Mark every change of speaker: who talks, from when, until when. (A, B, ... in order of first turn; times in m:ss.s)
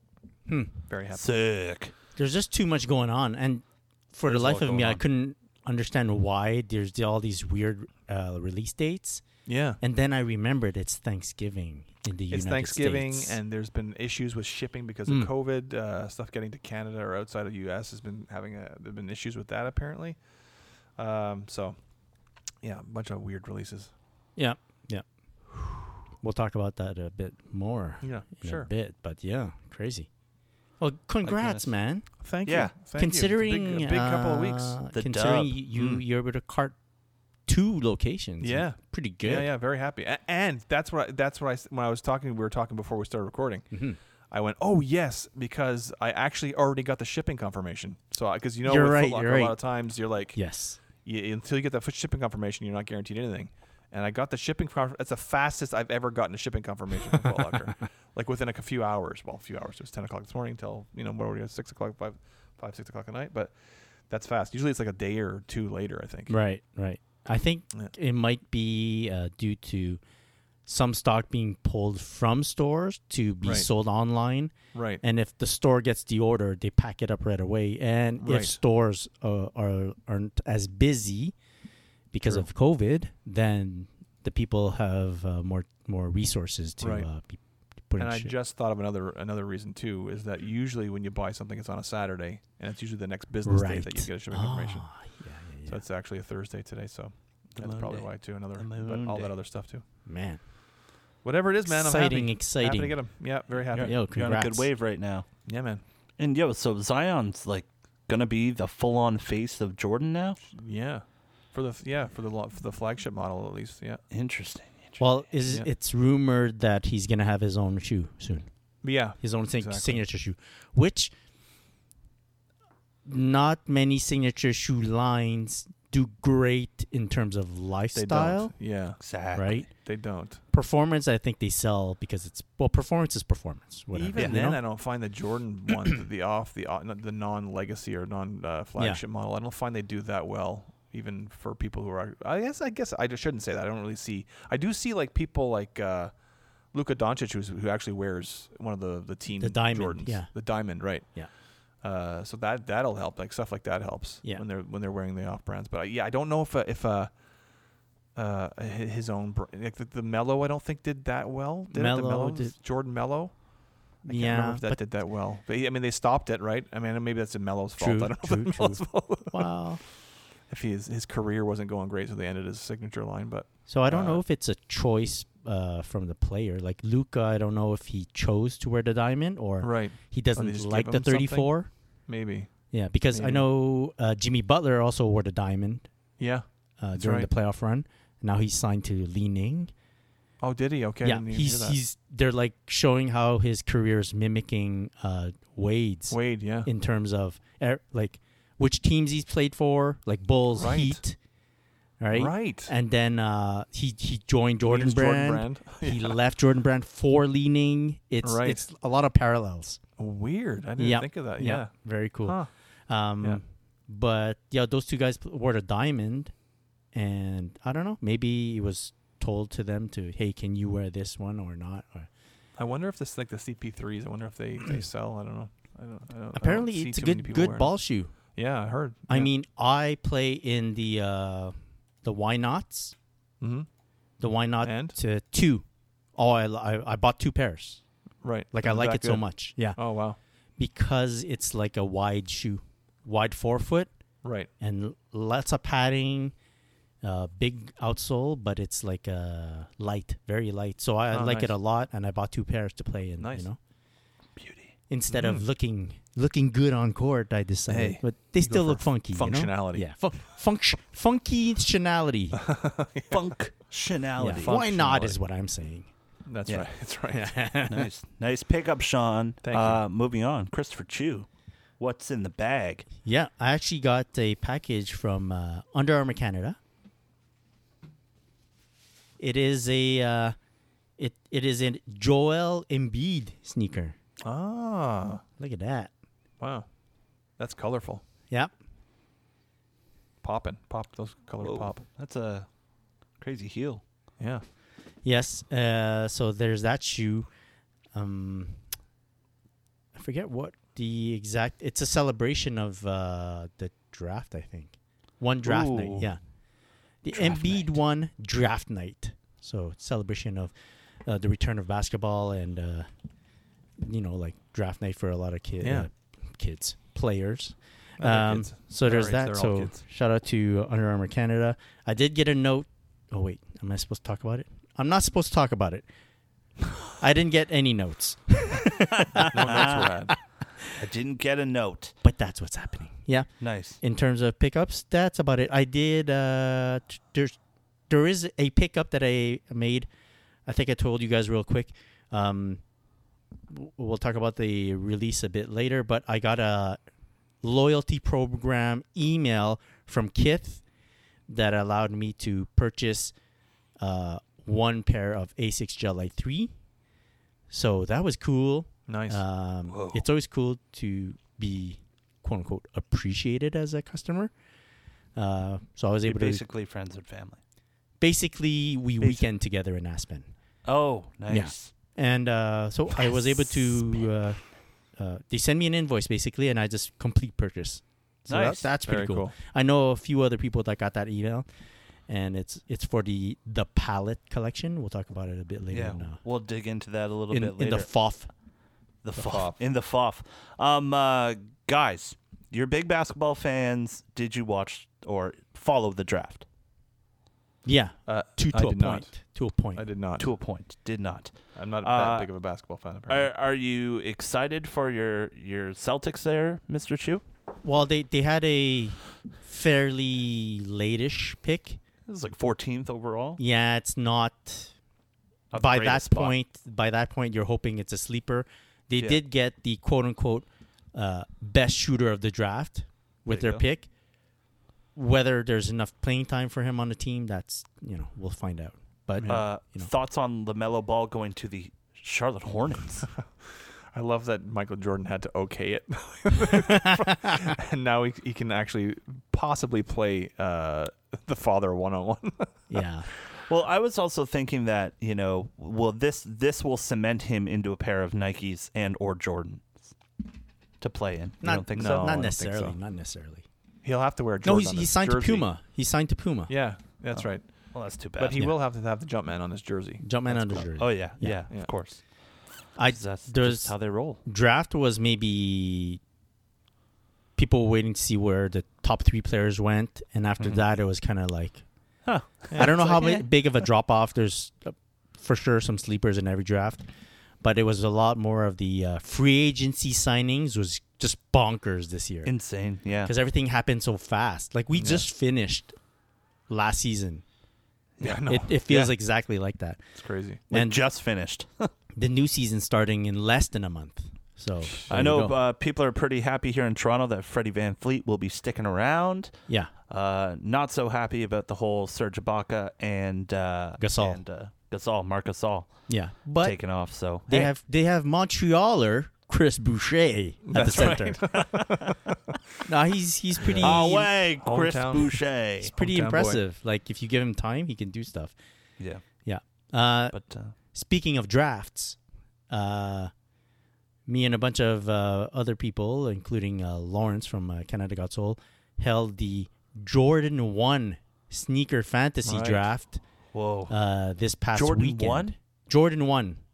0:00.5-0:00.7 A
0:00.9-0:01.2 B
0:01.1-0:01.9 C
0:02.2-0:09.2 A
0:04.3-0:05.0 C
0:09.4-0:09.8 B
0:09.8-0:13.4 A
0:12.3-0:20.2 B
0:21.0-0:21.8 B
0:22.6-0:23.9 B
0:24.4-0:30.1 A
0:28.0-0:28.7 B
0:30.8-0:32.1 A
0:31.2-0:31.7 C
0:32.2-0:34.8 B
0:32.4-0:32.7 C
0:32.9-0:36.8 A
0:34.9-0:36.0 C
0:37.4-0:39.5 A
0:38.4-0:43.7 B
0:43.7-0:44.0 A
0:44.3-0:50.4 B
0:48.6-0:49.6 A
0:50.3-0:50.8 A
0:51.0-1:03.5 B
1:04.1-1:06.3 B
1:06.3-1:10.0 A
1:10.6-1:21.3 A
1:13.4-1:13.7 B
1:14.7-1:15.0 B
1:18.2-1:18.6 B
1:22.1-1:28.3 A
1:26.8-1:27.1 B
1:28.0-1:34.9 B
1:33.4-1:35.8 A
1:35.7-1:39.8 B
1:37.5-1:39.3 C
1:40.0-1:40.4 A
1:41.2-1:43.9 B
1:41.6-1:43.0 A
1:43.7-1:45.3 C
1:43.8-1:44.7 A
1:45.4-1:45.8 B
1:46.2-1:50.4 C
1:50.5-1:54.0 B
1:54.1-1:55.0 C
1:55.0-1:58.5 A
1:58.8-2:00.0 B
1:59.2-2:01.1 A
2:03.0-2:08.5 A
2:07.9-2:09.0 B
2:09.0-2:09.7 C
2:09.3-2:09.7 A
2:09.8-2:10.4 B
2:10.5-2:14.6 A
2:13.9-2:26.1 B
2:14.2-2:14.5 C
2:26.7-2:31.1 B
2:29.4-2:30.3 A
2:31.8-2:37.1 B
2:38.1-2:43.3 B
2:41.7-2:42.5 A
2:44.0-2:44.8 A
2:44.0-2:49.5 B
2:47.8-2:49.8 A
2:50.5-2:54.2 B
2:53.7-3:01.7 A
2:59.6-3:01.5 B
3:02.1-3:02.5 B
3:02.7-3:05.9 A
3:03.1-3:03.4 B
3:06.2-3:06.4 B
3:06.8-3:09.7 A
3:07.0-3:07.3 B
3:10.4-3:11.8 B
3:11.0-3:21.2 A
3:16.1-3:16.7 B
3:20.6-3:21.0 B
3:22.0-3:29.8 A
3:22.1-3:22.7 B
3:24.7-3:26.2 B
3:28.2-3:28.6 B
3:30.0-3:31.7 B
3:30.8-3:32.4 A
3:32.2-3:32.5 B
3:32.9-3:36.3 A
3:36.9-3:42.1 A
3:42.6-3:47.8 B
3:46.3-3:48.1 A
3:48.3-3:49.3 B
3:49.1-3:52.9 A
3:53.4-3:53.7 B
3:54.2-3:55.6 A
3:54.6-3:55.0 B
3:56.2-3:57.8 A
3:58.2-4:00.2 B
3:58.5-3:59.8 A
4:00.6-4:03.9 A
4:04.2-4:04.5 B
4:04.6-4:06.3 A
4:07.0-4:13.6 A
4:11.1-4:11.5 B
4:13.2-4:13.4 B
4:14.4-4:14.7 C
4:14.9-4:22.4 A
4:15.1-4:15.4 B
4:17.7-4:19.8 B
4:22.3-4:23.2 B
4:23.1-4:25.2 C
4:24.2-4:25.9 A
4:26.2-4:27.4 B
4:27.1-4:27.9 A
4:27.7-4:31.3 C
4:29.4-4:29.8 B
4:31.8-4:32.9 C
4:33.0-4:36.6 A
4:39.2-4:40.4 A
4:41.0-4:44.0 A
4:44.2-4:45.2 B
4:45.4-4:45.9 A
4:46.4-4:46.7 B
4:47.4-4:48.0 B
4:50.2-4:51.8 B
4:51.4-4:52.5 C
4:53.2-4:53.8 C
4:55.0-4:57.3 A
4:57.9-4:58.6 A
4:59.9-5:06.2 A
5:05.4-5:06.1 C
5:07.0-5:10.5 A
5:07.1-5:07.7 C
5:11.0-5:12.9 A
5:13.8-5:25.8 A
5:15.6-5:15.9 B
5:18.0-5:19.8 B
5:27.0-5:30.6 A
5:29.1-5:29.9 C
5:29.3-5:30.1 B
5:30.8-5:31.9 C
5:32.0-5:33.3 A
5:33.4-5:33.8 C
5:33.8-5:37.3 A
5:37.9-5:39.9 A
5:40.4-5:42.6 A
5:43.5-5:46.8 A
5:47.4-5:50.6 A
5:51.3-5:53.1 A
5:53.8-5:56.5 A
5:57.5-6:04.3 A
5:58.9-5:59.2 B
5:59.7-6:00.0 C
6:05.2-6:06.4 A
6:06.0-6:07.4 C
6:08.0-6:10.3 A
6:10.6-6:11.7 C
6:11.3-6:14.4 A
6:15.0-6:21.5 A
6:18.3-6:18.6 C
6:18.3-6:19.3 B
6:22.1-6:26.2 A
6:25.7-6:27.9 C
6:27.3-6:28.3 A
6:29.0-6:36.4 C
6:29.2-6:29.6 B
6:37.6-6:39.8 A
6:38.1-6:39.1 B
6:39.7-6:40.3 B
6:40.2-6:42.3 C
6:41.6-6:43.3 B
6:43.1-6:47.2 C
6:47.6-6:51.8 A
6:52.1-6:53.4 C
6:53.4-6:54.7 A
6:55.5-6:56.3 C
6:55.5-7:03.9 A
7:03.3-7:03.6 C
7:04.9-7:09.9 A
7:09.2-7:09.5 B
7:09.2-7:13.1 C
7:13.9-7:22.8 B
7:16.6-7:17.3 A
7:22.7-7:23.1 A
7:23.4-7:29.9 C
7:30.8-7:32.1 C
7:31.4-7:33.4 A
7:31.7-7:32.8 B
7:33.8-7:35.5 B
7:34.4-7:36.5 A
7:36.5-7:40.7 B
7:37.7-7:38.4 C
7:40.0-7:41.4 A
7:40.8-7:42.0 C
7:42.8-7:43.7 A
7:42.9-7:44.2 C
7:44.2-7:46.0 A
7:47.4-7:51.6 A
7:52.0-7:53.3 C
7:52.5-7:52.8 B
7:52.5-7:56.8 A
7:57.4-8:02.3 A
8:02.2-8:03.1 C
8:03.0-8:05.7 A
8:04.7-8:05.0 B
8:06.5-8:07.2 A
8:08.0-8:08.9 C
8:08.0-8:08.6 B
8:08.2-8:09.8 A
8:10.0-8:10.4 B
8:10.5-8:10.8 A
8:10.5-8:11.7 C
8:12.0-8:15.3 A
8:14.9-8:27.5 C
8:23.8-8:24.2 A
8:25.9-8:26.6 A
8:27.2-8:31.2 A
8:30.4-8:32.2 B
8:30.6-8:31.9 C
8:32.6-8:34.1 A
8:33.4-8:35.2 B
8:33.6-8:35.7 C
8:35.6-8:38.3 A
8:35.7-8:36.4 B
8:39.2-8:40.2 A
8:40.1-8:40.5 C
8:40.7-8:42.0 A
8:42.5-8:43.1 A
8:44.1-8:53.0 A
8:52.2-8:52.6 B
8:53.3-8:53.7 C
8:53.7-8:56.4 A
8:54.5-8:55.3 C